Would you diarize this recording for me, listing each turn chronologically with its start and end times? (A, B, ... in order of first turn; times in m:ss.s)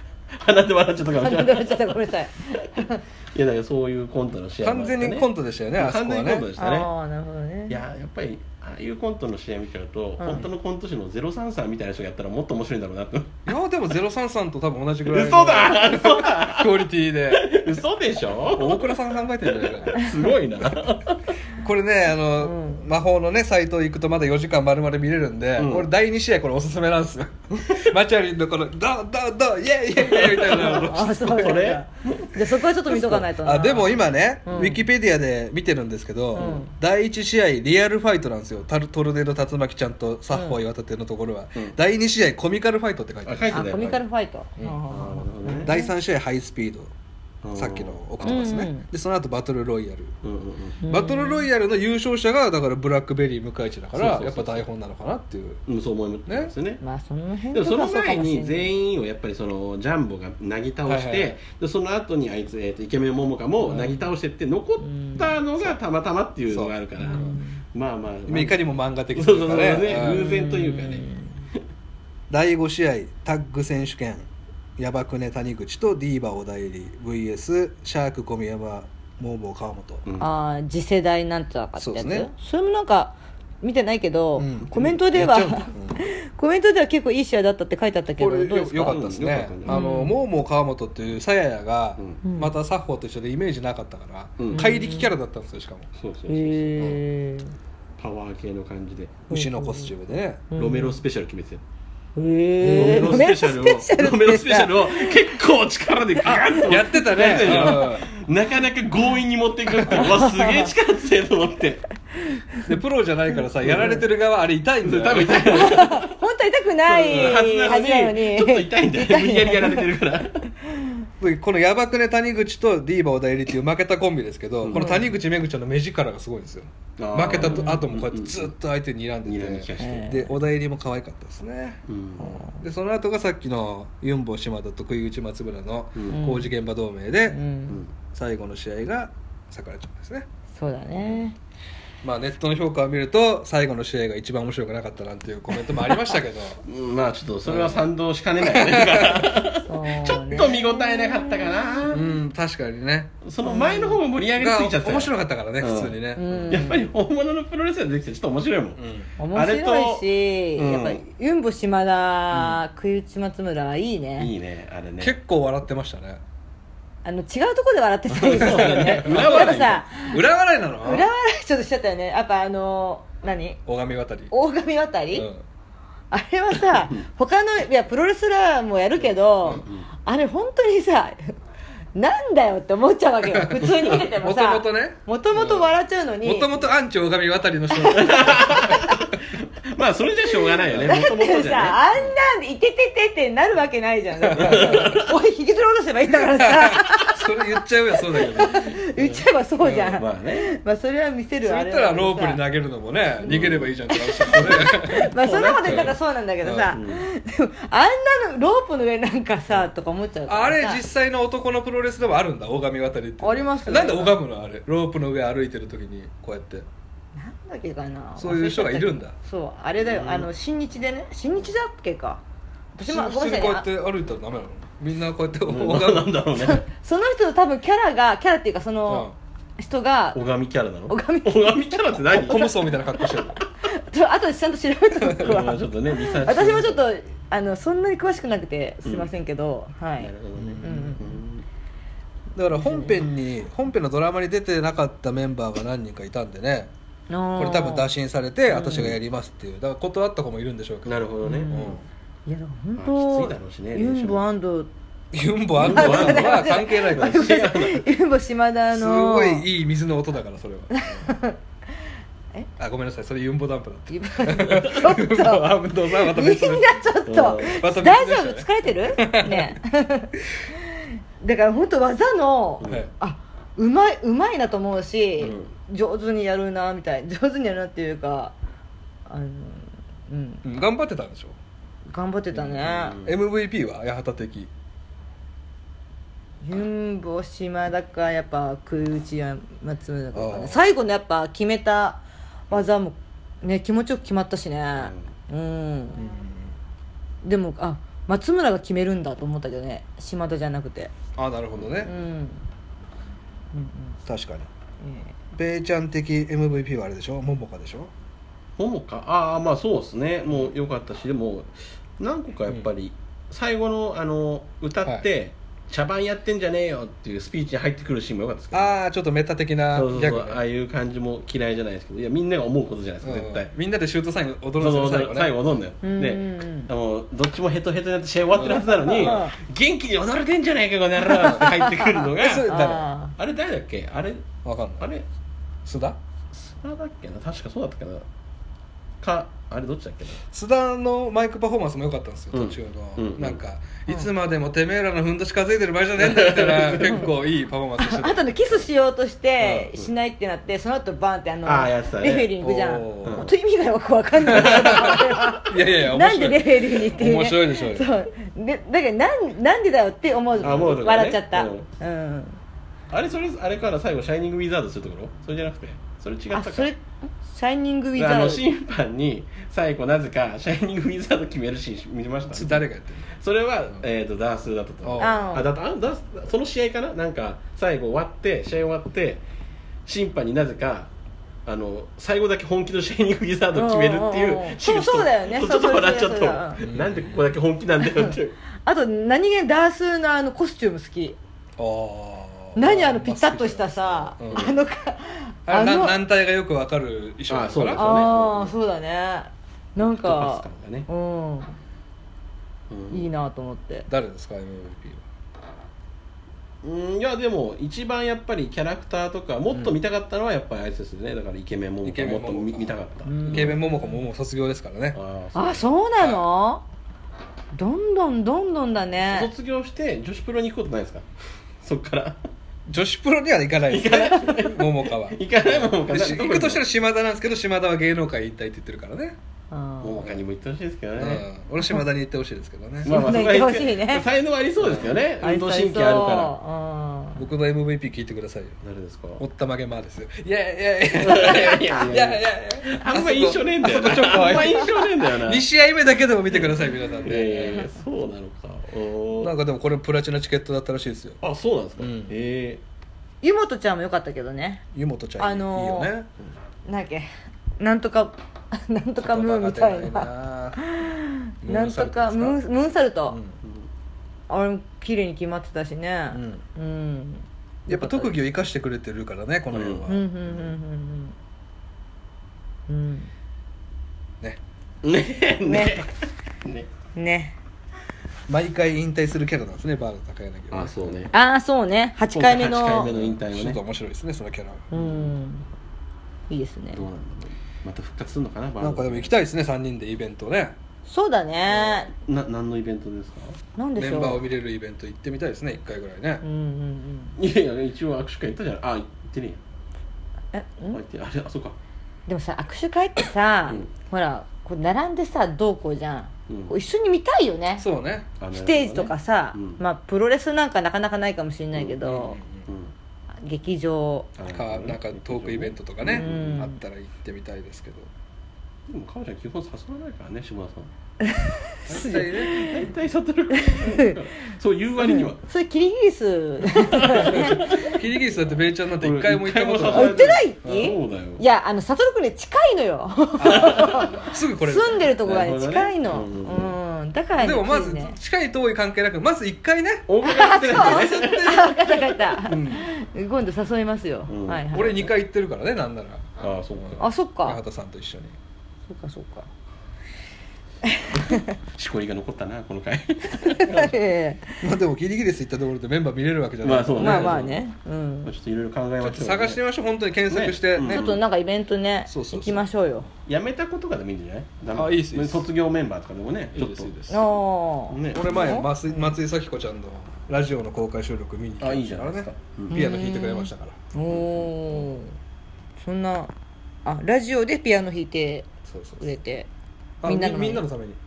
0:00.3-0:02.0 A
0:01.2-0:03.0 B
0:03.3-0:06.9 A
0:04.6-0:06.5 C
0:06.6-0:07.8 B
0:07.7-0:13.3 A
0:10.2-0:10.5 B
0:13.4-0:17.5 C
0:15.1-0:21.2 A
0:18.5-0:20.0 C
0:21.6-0:31.6 C
0:22.4-0:22.8 B
0:25.6-0:25.9 A
0:30.0-0:32.4 A
0:30.7-0:34.8 B
0:32.9-0:43.8 C
0:36.3-0:36.6 A
0:36.3-0:36.7 B
0:40.3-0:40.6 B
0:43.2-0:44.0 A
0:43.5-0:45.9 B
0:44.9-0:45.7 A
0:45.6-0:46.9 C
0:47.4-0:48.5 A
0:47.5-0:50.1 C
0:48.2-0:48.8 B
0:50.2-0:50.8 A
0:50.8-0:51.5 B
0:50.9-0:55.6 C
0:53.9-0:54.6 A
0:55.7-0:56.8 A
0:56.3-0:56.5 C
0:56.8-0:58.7 B
0:57.5-1:08.6 A
1:00.9-1:01.4 C
1:03.6-1:04.1 C
1:04.8-1:05.3 B
1:06.5-1:07.4 C
1:07.0-1:07.6 B
1:08.3-1:10.2 C
1:09.1-1:11.1 A
1:09.9-1:11.3 B
1:12.3-1:14.2 C
1:14.8-1:20.0 C
1:20.0-1:20.3 A
1:20.2-1:29.0 B
1:21.8-1:22.3 C
1:24.4-1:26.0 C
1:28.2-1:35.9 C
1:28.9-1:29.9 A
1:29.7-1:30.2 B
1:32.2-1:32.5 B
1:34.4-1:34.7 A
1:34.5-1:35.1 B
1:36.0-1:36.8 A
1:36.3-1:37.5 B
1:38.0-1:39.2 A
1:39.3-1:39.9 B
1:39.3-1:40.4 C
1:40.5-1:41.0 B
1:40.6-1:41.6 A
1:42.2-1:45.4 B
1:42.6-1:43.3 C
1:42.7-1:51.8 A
1:46.2-1:46.7 B
1:46.6-1:48.0 C
1:47.5-1:47.7 B
1:49.8-1:50.7 B
1:52.3-1:52.6 B
1:52.6-1:55.8 C
1:53.6-1:54.0 A
1:54.8-1:56.1 A
1:55.4-1:59.8 B
1:56.9-2:00.5 A
1:57.0-1:57.4 C
2:01.2-2:17.4 C
2:04.6-2:05.0 A
2:04.7-2:05.1 B
2:07.0-2:08.5 A
2:07.4-2:07.8 B
2:09.2-2:10.1 A
2:09.8-2:10.3 B
2:11.9-2:12.4 A
2:12.2-2:12.6 B
2:16.1-2:16.5 B
2:17.3-2:17.8 B
2:18.1-2:20.3 C
2:20.5-2:21.4 B
2:22.0-2:26.6 C
2:25.5-2:26.2 B
2:26.6-2:32.1 A
2:27.4-2:27.8 C
2:28.4-2:29.3 C
2:29.6-2:31.8 B
2:31.9-2:33.1 C
2:33.2-2:38.8 A
2:33.4-2:34.0 B
2:34.4-2:36.5 C
2:36.2-2:36.8 B
2:38.8-2:39.1 C
2:39.2-2:44.3 B
2:39.3-2:41.0 A
2:42.3-2:42.6 C
2:44.2-2:45.2 A
2:45.0-2:46.2 C
2:47.0-2:50.1 B
2:48.1-2:49.8 A
2:48.4-2:51.0 C
2:50.8-2:53.6 B
2:53.7-2:54.3 C
2:54.3-2:55.3 B
2:55.1-2:55.4 C
2:56.1-3:01.4 B
3:01.9-3:06.5 B
3:03.3-3:05.7 C
3:06.2-3:08.9 C
3:07.9-3:12.2 A
3:08.4-3:08.9 B
3:10.7-3:10.9 C
3:10.8-3:22.4 B
3:14.3-3:15.0 C
3:14.3-3:15.1 A
3:16.4-3:18.8 C
3:18.9-3:19.2 A
3:19.6-3:20.0 C
3:19.9-3:20.6 A
3:21.4-3:26.8 C
3:23.2-3:23.8 A
3:23.9-3:30.8 B
3:24.3-3:26.0 A
3:26.7-3:27.0 A
3:30.3-3:36.6 C
3:33.2-3:34.2 B
3:37.2-3:42.2 B
3:38.2-3:39.1 C
3:39.8-3:40.3 A
3:42.7-3:43.7 B
3:42.8-3:46.1 C
3:45.5-3:46.6 A
3:46.4-3:50.2 B
3:48.9-3:49.2 C
3:50.1-3:52.4 A
3:50.9-4:00.1 B
3:52.1-3:53.4 C
3:55.0-3:55.4 C
3:55.2-3:56.8 A
3:58.8-3:59.1 A
4:00.0-4:01.4 A
4:00.4-4:00.8 C
4:00.6-4:01.2 B
4:02.3-4:06.7 C
4:02.5-4:03.0 B
4:07.1-4:07.9 B
4:07.4-4:11.8 C
4:08.5-4:08.9 B
4:10.8-4:11.7 A
4:11.2-4:14.7 B
4:12.8-4:14.2 A
4:15.1-4:17.1 C
4:15.6-4:17.8 A
4:15.6-4:19.4 B
4:18.7-4:21.1 C
4:20.7-4:21.4 B
4:22.6-4:26.8 C
4:23.9-4:38.3 B
4:27.1-4:27.6 A
4:27.4-4:29.6 C
4:35.2-4:35.5 A
4:39.1-4:40.4 B
4:40.4-4:41.4 C
4:41.9-4:43.0 B
4:42.6-4:43.1 A
4:43.0-4:44.5 C
4:46.4-4:56.0 B
4:50.1-4:50.6 C
4:54.8-4:55.1 A
4:56.0-4:56.5 C
4:57.2-5:00.9 B
5:01.2-5:01.9 C
5:01.8-5:02.4 B
5:03.5-5:04.0 B
5:04.0-5:04.5 C
5:04.8-5:05.1 B
5:05.3-5:07.9 C
5:08.6-5:18.8 A
5:18.5-5:20.4 C
5:19.7-5:23.5 A
5:23.0-5:25.3 C
5:24.6-5:32.5 A
5:25.8-5:26.7 B
5:28.4-5:28.7 C
5:28.8-5:29.4 B
5:31.0-5:33.1 B
5:31.2-5:31.5 C
5:32.2-5:32.9 C
5:33.1-5:34.3 A
5:34.4-5:34.9 C
5:34.8-5:35.1 A
5:35.6-5:36.0 C
5:36.3-5:38.0 A
5:39.0-5:40.2 A
5:40.3-5:48.4 C
5:42.3-5:43.4 A
5:46.0-5:47.0 A
5:46.8-5:47.1 B
5:47.8-6:02.4 B
5:49.4-5:49.7 C
5:51.4-5:52.3 A
5:52.4-5:53.3 C
5:53.0-5:53.3 A
5:54.2-5:57.9 C
5:54.3-5:55.4 A
6:00.4-6:00.7 C
6:00.4-6:01.7 A
6:02.9-6:06.7 A
6:06.3-6:08.4 B
6:08.0-6:19.2 A
6:12.3-6:13.1 C
6:14.8-6:15.2 C
6:15.0-6:15.5 B
6:19.8-6:20.9 A
6:21.4-6:28.4 A
6:23.5-6:26.7 B
6:26.6-6:27.2 C
6:27.8-6:31.2 B
6:31.6-6:34.5 C
6:32.6-6:36.0 B
6:35.5-6:38.1 C
6:37.3-6:38.5 A
6:37.7-6:41.5 B
6:39.8-6:40.9 A
6:42.7-6:43.1 A
6:42.9-6:43.9 B
6:43.9-6:45.0 C
6:46.6-6:53.6 A
6:49.5-6:49.8 C
6:51.8-6:55.0 C
6:53.0-6:54.0 B
6:54.9-6:55.7 A
6:55.3-6:56.6 B
6:57.5-6:59.3 B
6:59.0-7:01.1 A
7:01.6-7:02.2 A
7:02.7-7:09.2 C
7:03.7-7:06.6 A
7:09.5-7:10.1 B
7:09.8-7:11.2 A
7:11.0-7:13.0 C
7:12.8-7:16.4 A
7:12.8-7:14.1 B
7:14.6-7:14.9 C
7:15.2-7:17.2 B
7:17.2-7:18.6 C
7:18.6-7:19.2 A
7:19.2-7:27.7 C
7:21.0-7:25.4 A
7:26.3-7:29.4 A
7:29.2-7:31.2 C
7:31.2-7:32.6 A
7:31.8-7:32.1 C
7:33.2-7:34.6 B
7:34.7-7:36.1 C
7:35.2-7:35.9 B
7:36.6-7:37.1 B
7:37.6-7:43.2 B
7:39.0-7:40.6 C
7:41.4-7:42.4 C
7:43.1-7:43.4 C
7:44.3-7:48.1 B
7:46.1-7:46.4 C
7:47.7-7:50.1 C
7:49.5-7:49.9 A
7:49.9-7:51.1 B
7:52.7-7:53.1 B
7:54.8-7:56.7 A
7:55.4-7:55.8 B
7:56.9-7:57.3 B
7:58.3-8:01.0 C
8:00.5-8:01.1 A
8:01.1-8:02.9 B
8:02.1-8:03.6 A
8:02.8-8:04.7 C
8:04.7-8:05.4 B
8:04.7-8:05.1 A
8:06.3-8:06.8 B
8:06.7-8:09.2 A
8:08.6-8:10.6 C
8:10.8-8:11.9 B
8:11.5-8:13.4 A
8:13.6-8:14.2 B
8:13.8-8:16.2 C
8:16.2-8:17.2 B
8:17.2-8:19.4 A
8:20.3-8:20.8 B
8:20.7-8:21.6 A
8:22.1-8:27.6 B
8:26.3-8:26.5 A
8:27.6-8:28.1 C
8:28.2-8:29.6 A
8:28.3-8:32.2 B
8:31.8-8:32.4 C
8:32.5-8:32.7 A
8:33.2-8:34.1 B
8:34.2-8:36.3 A
8:34.3-8:37.9 C
8:35.8-8:36.6 B
8:38.7-8:40.7 A
8:41.0-8:42.7 B
8:41.7-8:42.4 C
8:42.1-8:45.2 A
8:43.3-8:43.9 B
8:44.8-8:47.7 B
8:46.7-8:50.7 C
8:46.7-8:47.8 A
8:48.8-8:51.2 A
8:49.7-8:58.0 B
8:53.2-8:54.9 C
8:53.3-8:53.8 A
8:55.0-8:56.5 A
8:57.2-8:59.8 C
8:59.9-9:02.0 A
9:00.0-9:04.8 B
9:02.2-9:02.7 C
9:04.1-9:04.9 A
9:04.5-9:08.2 C
9:06.2-9:06.9 A
9:06.8-9:07.4 B
9:08.7-9:09.3 B
9:10.6-9:11.3 B
9:10.9-9:13.7 A
9:13.1-9:14.4 B
9:14.4-9:17.2 C
9:16.4-9:17.4 A
9:16.7-9:18.1 B
9:18.0-9:19.4 A
9:18.8-9:20.9 C
9:20.1-9:21.0 A
9:20.6-9:22.9 B
9:21.9-9:22.4 C
9:23.1-9:26.7 A
9:24.5-9:25.2 C
9:26.3-9:27.0 C
9:26.9-9:28.5 B
9:27.7-9:28.3 A
9:27.9-9:33.6 C
9:31.4-9:32.6 A
9:32.5-9:34.9 B
9:35.6-9:36.1 B
9:36.6-9:38.3 B
9:38.4-9:38.8 C
9:38.8-9:39.3 B
9:39.8-9:40.8 C
9:39.8-9:40.4 B